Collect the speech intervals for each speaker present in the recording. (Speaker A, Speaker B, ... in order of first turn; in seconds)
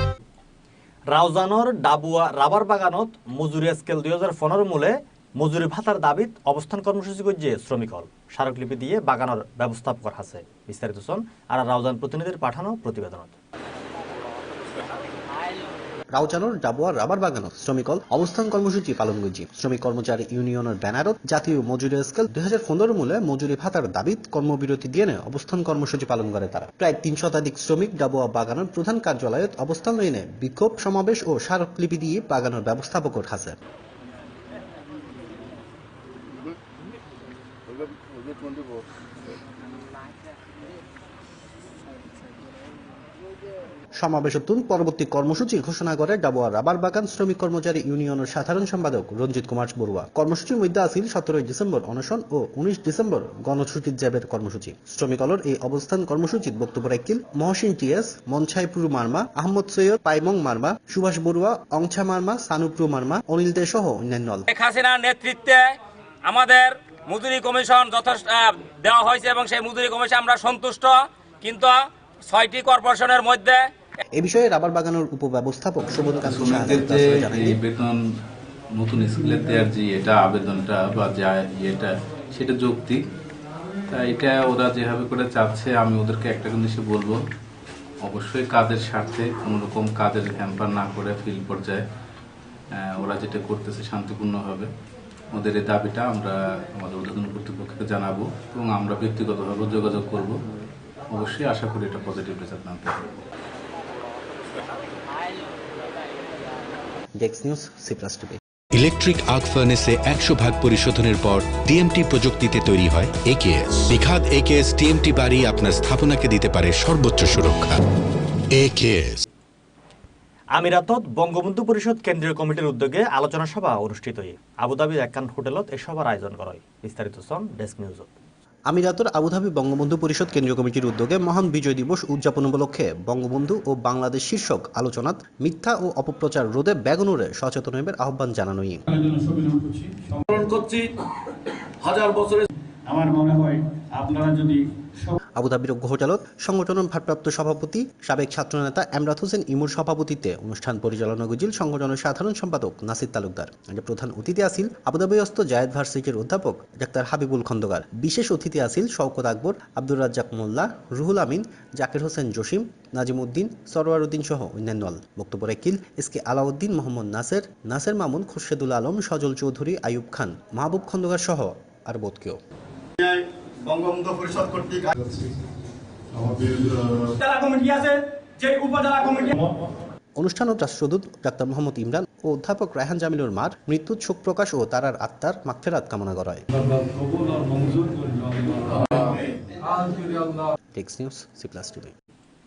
Speaker A: 1.1-13.3, 120.5-128.1
Speaker B: 16.1-33.6, 44.0-64.5, 74.2-77.6, 107.2-108.4, 128.7-138.8, 145.3-172.4, 180.2-186.4, 190.7-191.9
Speaker C: 64.5-65.6, 66.3-71.7, 72.3-73.6
Speaker D: 76.2-77.9, 78.7-83.0, 83.9-87.2, 88.0-91.8, 92.7-94.7, 95.3-100.3, 101.1-103.0
Speaker E: 108.9-117.7, 118.7-119.0
Speaker F: 139.0-140.8, 141.8-144.5, 173.7-174.9, 187.5-188.1
Speaker G: 177.2-179.4